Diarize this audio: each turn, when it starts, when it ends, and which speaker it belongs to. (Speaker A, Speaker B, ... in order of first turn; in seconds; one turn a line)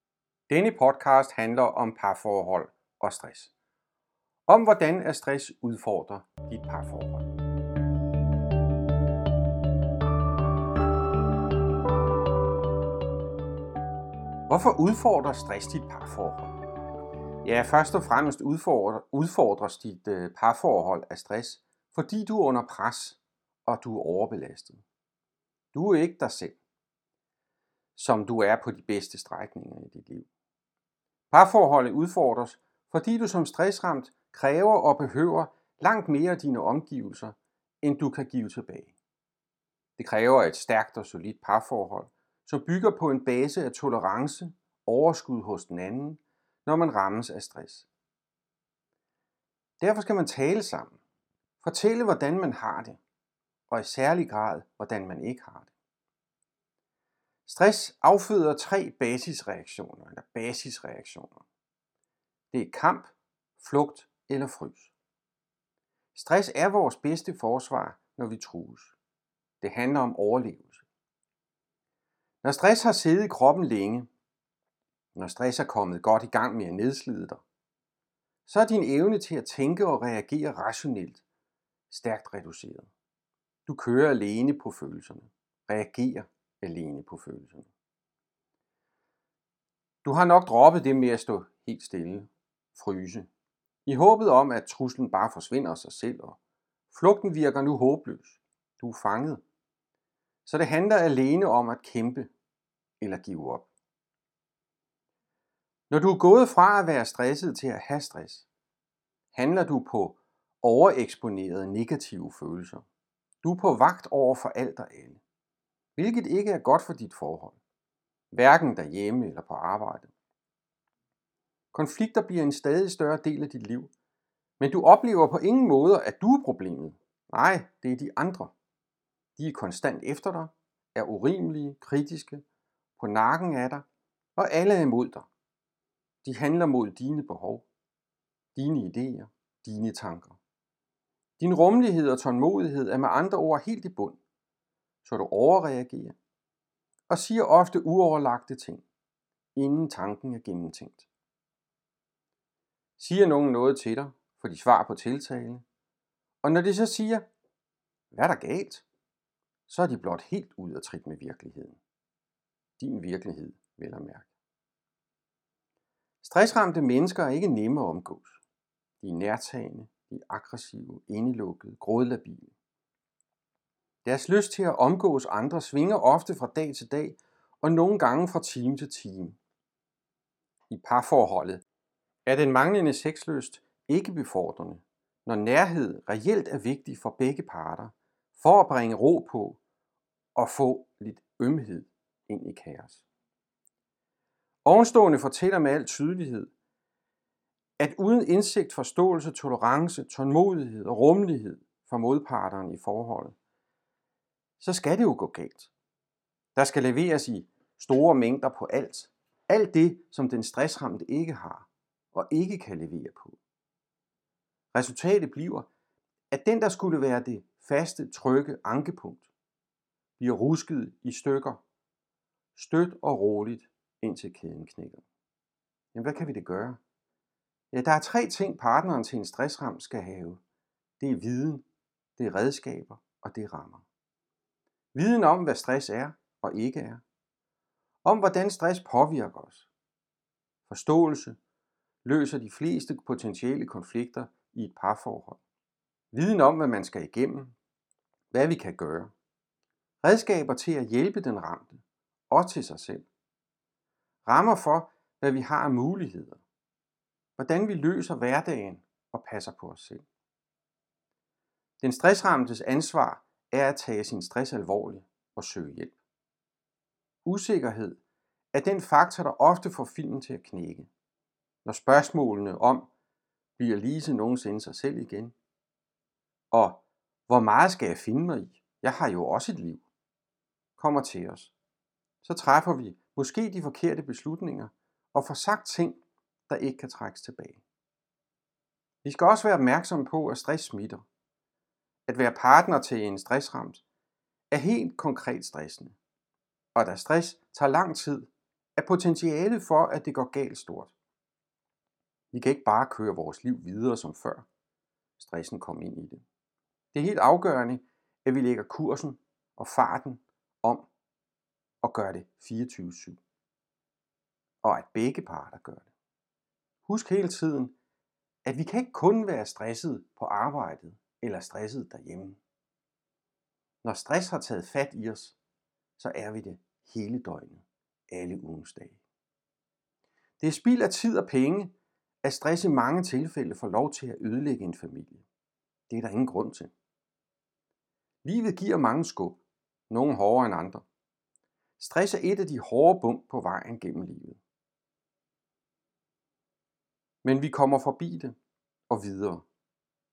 Speaker A: 0.5-3.5
Speaker A: 4.5-7.2
Speaker A: 14.5-16.5
Speaker A: 17.4-24.8
Speaker A: 25.7-26.6
Speaker A: 27.9-30.3
Speaker A: 31.3-39.0
Speaker A: 40.0-47.9
Speaker A: 49.8-51.0
Speaker A: 51.6-53.0
Speaker A: 53.7-55.7
Speaker A: 57.5-61.4
Speaker A: 62.5-64.9
Speaker A: 66.2-69.0
Speaker A: 69.6-70.8
Speaker A: 72.4-74.1
Speaker A: 75.2-77.4
Speaker A: 78.5-81.2
Speaker A: 81.9-82.9
Speaker A: 83.7-87.7
Speaker A: 90.0-93.3
Speaker A: 93.8-96.4
Speaker A: 96.9-99.4
Speaker A: 100.5-102.3
Speaker A: 103.0-103.7
Speaker A: 105.9-108.5
Speaker A: 109.3-112.8
Speaker A: 113.4-115.2
Speaker A: 116.0-117.6
Speaker A: 118.3-120.1
Speaker A: 121.7-123.9
Speaker A: 124.6-128.5
Speaker A: 129.4-132.4
Speaker A: 133.0-135.3
Speaker A: 136.2-137.7
Speaker A: 138.5-140.4
Speaker A: 141.4-144.2
Speaker A: 145.0-146.2
Speaker A: 147.1-148.8
Speaker A: 149.5-151.1
Speaker A: 153.0-155.6
Speaker A: 156.4-157.3
Speaker A: 158.1-158.8
Speaker A: 159.7-161.8
Speaker A: 162.8-164.3
Speaker A: 166.2-168.4
Speaker A: 169.0-172.5
Speaker A: 174.0-179.4
Speaker A: 180.7-181.6
Speaker A: 182.2-189.6
Speaker A: 190.3-193.0
Speaker A: 194.6-196.5
Speaker A: 197.8-203.3
Speaker A: 204.6-205.7
Speaker A: 206.6-213.4
Speaker A: 214.7-215.7
Speaker A: 216.3-219.3
Speaker A: 220.2-221.6
Speaker A: 222.5-225.0
Speaker A: 225.9-226.8
Speaker A: 227.7-230.4
Speaker A: 231.0-231.7
Speaker A: 232.2-233.8
Speaker A: 234.9-237.0
Speaker A: 238.0-239.7
Speaker A: 240.7-241.4
Speaker A: 242.0-245.4
Speaker A: 246.1-247.6
Speaker A: 248.3-249.1
Speaker A: 250.0-253.1
Speaker A: 254.2-256.4
Speaker A: 257.4-260.1
Speaker A: 261.8-266.0
Speaker A: 267.2-268.0
Speaker A: 268.5-270.9
Speaker A: 271.6-272.9
Speaker A: 273.6-275.4
Speaker A: 276.5-279.9
Speaker A: 280.8-281.5
Speaker A: 282.2-287.6
Speaker A: 289.0-291.1
Speaker A: 292.1-293.8
Speaker A: 294.5-296.0
Speaker A: 296.8-300.9
Speaker A: 302.3-304.5
Speaker A: 305.2-306.2
Speaker A: 306.9-310.9
Speaker A: 311.8-313.2
Speaker A: 314.6-315.9
Speaker A: 316.9-317.8
Speaker A: 318.4-322.4
Speaker A: 323.8-325.4
Speaker A: 326.0-329.0
Speaker A: 330.4-335.2
Speaker A: 335.9-336.7
Speaker A: 338.2-340.9
Speaker A: 341.8-344.4
Speaker A: 347.2-348.4
Speaker A: 348.9-349.5